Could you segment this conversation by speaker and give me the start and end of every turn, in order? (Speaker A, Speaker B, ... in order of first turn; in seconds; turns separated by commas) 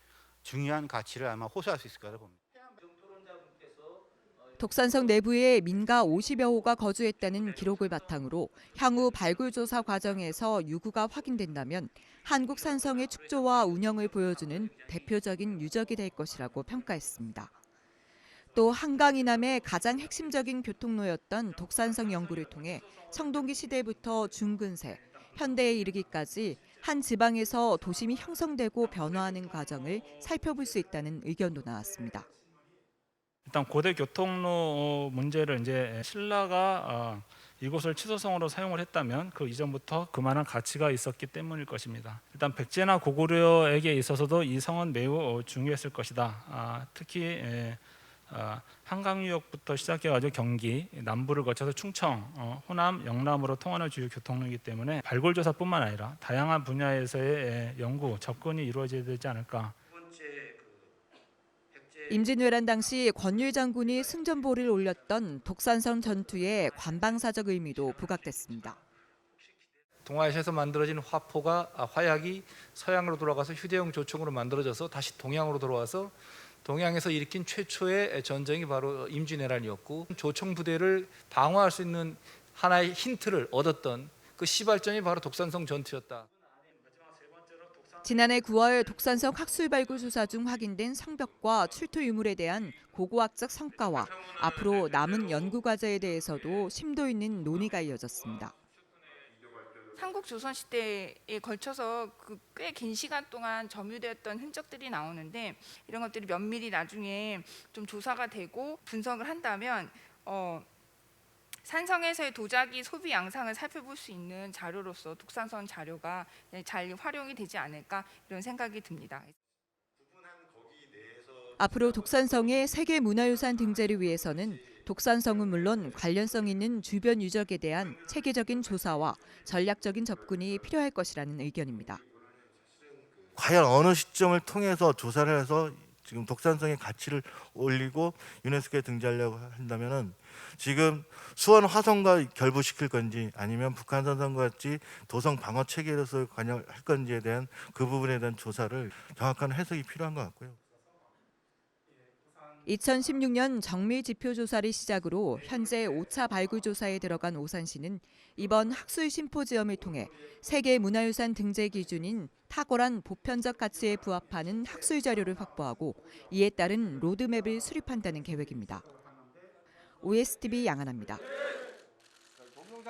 Speaker A: 0.4-2.4, Speaker B: 4.6-17.5, Speaker B: 18.5-32.3, Speaker C: 22.7-23.1, Speaker C: 25.0-25.5, Speaker C: 29.9-30.2, Speaker C: 33.5-59.8, Speaker B: 62.1-68.8, Speaker D: 70.0-86.3, Speaker C: 86.7-89.3, Speaker B: 88.0-98.5, Speaker E: 100.0-110.7, Speaker E: 111.6-119.3, Speaker B: 121.6-132.0, Speaker F: 133.3-150.6, Speaker B: 152.7-168.8, Speaker B: 170.0-171.2